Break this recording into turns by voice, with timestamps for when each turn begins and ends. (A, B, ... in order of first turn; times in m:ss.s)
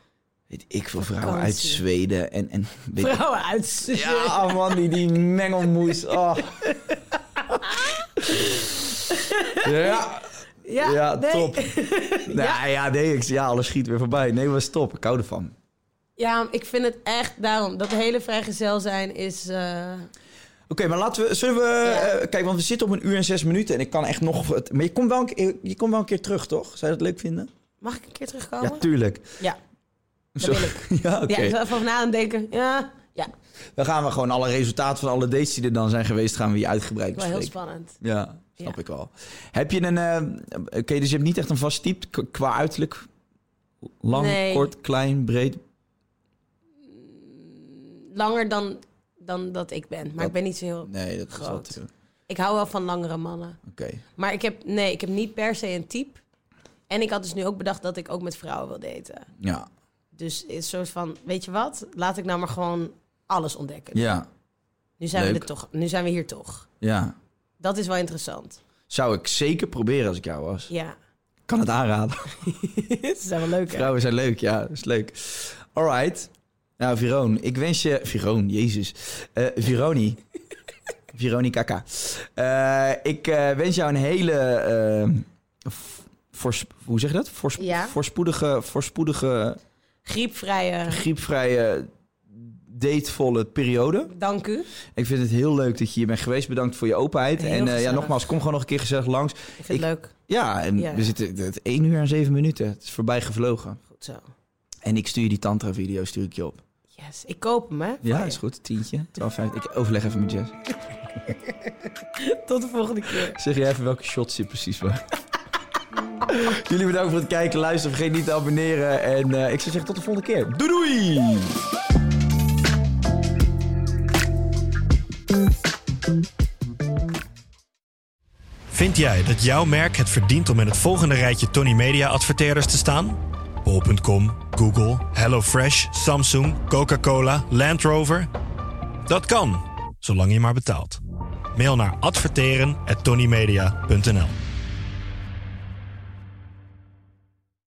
0:00.5-0:03.2 A
0:01.0-0:01.8 B
0:03.0-0:04.8 B
0:03.9-0:06.6 A
0:07.5-0:10.1 B
0:09.6-0:11.7 A
0:10.6-0:12.6 B
0:12.3-0:15.5 A
0:16.2-0:20.1 B
0:20.7-0:27.5 A
0:21.8-0:22.1 B
0:27.8-0:28.8 B
0:28.6-0:29.4 A
0:30.4-0:31.6 A
0:30.4-0:33.3 B
0:33.8-0:43.1 A
0:37.2-0:38.0 B
0:44.0-0:45.6 A
0:44.1-0:44.7 B
0:46.9-0:51.8 B
0:50.8-0:51.9 A
0:52.3-0:53.6 B
0:53.7-0:54.0 A
0:54.2-0:56.2 B
0:56.9-0:59.3 B
0:59.4-0:59.7 A
1:00.2-1:04.1 B
1:03.9-1:04.3 A
1:05.0-1:06.7 B
1:05.2-1:05.5 A
1:06.8-1:07.2 A
1:07.6-1:08.6 B
1:08.9-1:10.7 A
1:10.7-1:11.0 B
1:11.5-1:12.4 A
1:12.4-1:13.9 B
1:13.7-1:20.2 A
1:21.1-1:29.6 A
1:27.6-1:28.0 B
1:30.1-1:31.0 B
1:30.9-1:34.1 A
1:34.1-1:34.7 B
1:35.0-1:43.8 A
1:37.4-1:38.2 B
1:39.6-1:40.1 B
1:40.8-1:41.1 B
1:43.9-1:44.3 B
1:44.8-1:46.6 A
1:47.0-1:48.4 B
1:48.0-1:50.6 A
1:52.2-1:53.4 B
1:53.2-1:55.0 A
1:56.3-2:01.6 A
2:08.7-2:18.3 C
2:19.1-2:21.0 C
2:21.5-2:24.4 C